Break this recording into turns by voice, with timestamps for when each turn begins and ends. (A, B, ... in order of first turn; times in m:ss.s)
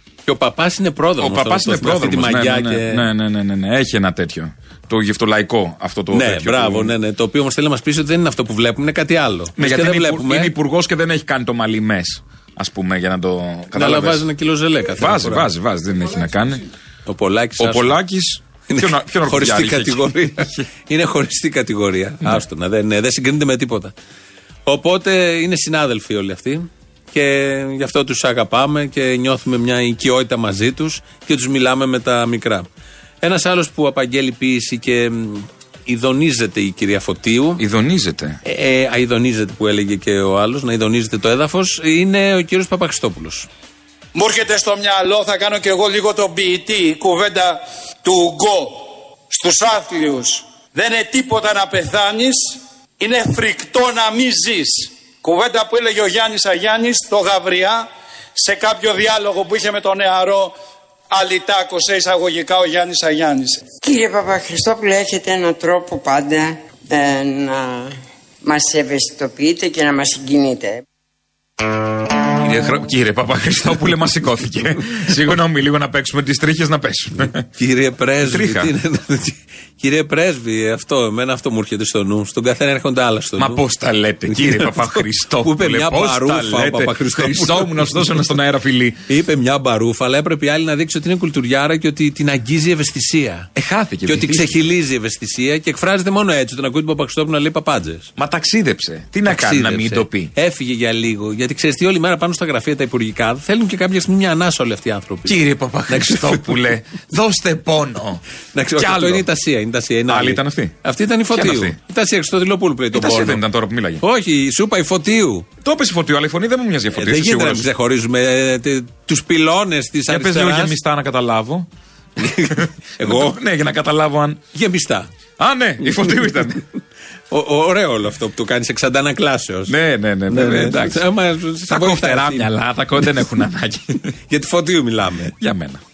0:00.3-0:03.0 A
0:01.2-0:06.9 B
0:06.1-0:10.5 A
0:09.6-0:14.2 B
0:13.7-0:15.5 A
0:15.0-0:16.6 B
0:17.0-0:18.0 A
0:17.6-0:20.6 B
0:18.7-0:23.9 A
0:24.6-0:32.6 A
0:33.2-0:37.6 A
0:37.6-0:38.4 B
0:38.4-0:43.5 A
0:44.1-1:00.5 C
1:01.1-1:03.7 C
1:03.8-1:10.8 D
1:12.4-1:17.4 B
1:17.5-1:23.6 A
1:18.2-1:18.7 B
1:23.4-1:29.0 B
1:24.3-1:28.2 A
1:29.1-1:33.5 A
1:33.6-1:34.5 B
1:34.0-1:38.1 A
1:38.2-1:40.3 B
1:39.2-1:45.4 A
1:45.2-1:48.2 B
1:45.9-1:46.6 A
1:48.5-1:53.4 A
1:48.8-1:49.2 B
1:50.1-1:50.7 B
1:51.3-1:51.8 B
1:52.9-1:54.0 B
1:54.0-1:55.4 A
1:55.6-1:57.7 B
1:57.0-2:00.7 A
2:00.1-2:01.7 B
2:02.2-2:03.4 A
2:02.6-2:04.4 B
2:04.5-2:05.1 A
2:05.4-2:06.6 B
2:05.8-2:06.4 A
2:07.3-2:09.7 A
2:09.7-2:11.0 B
2:10.3-2:12.5 A
2:11.7-2:14.1 B
2:14.3-2:15.3 A
2:15.4-2:15.8 B